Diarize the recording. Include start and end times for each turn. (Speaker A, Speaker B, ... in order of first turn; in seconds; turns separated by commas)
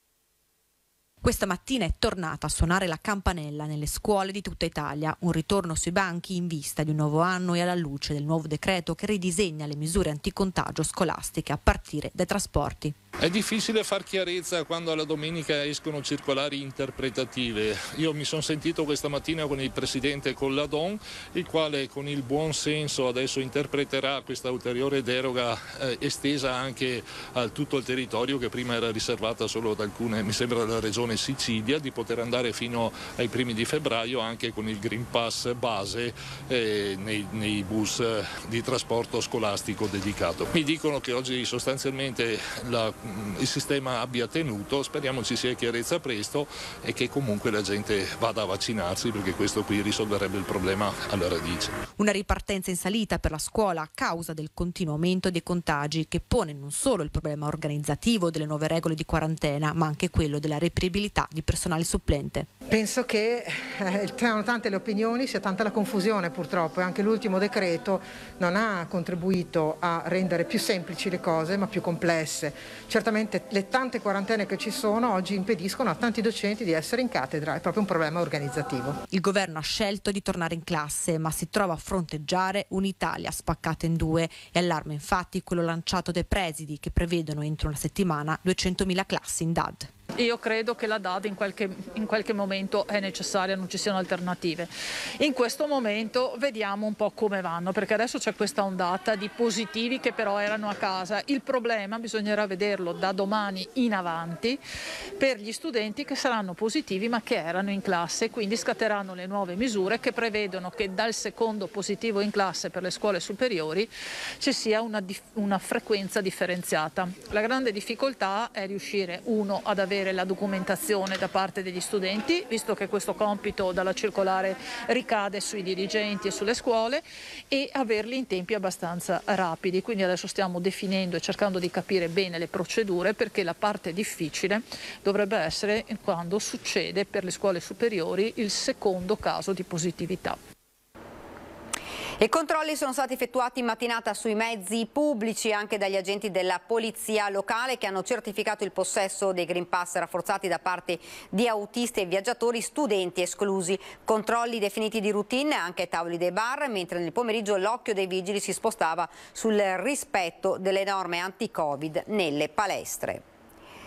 Speaker A: 1.2-12.9, Speaker B: 13.2-51.8, Speaker A: 52.0-62.5, Speaker C: 62.7-78.9, Speaker A: 79.1-89.9, Speaker D: 90.1-104.6, Speaker D: 105.2-140.4, Speaker E: 142.2-163.2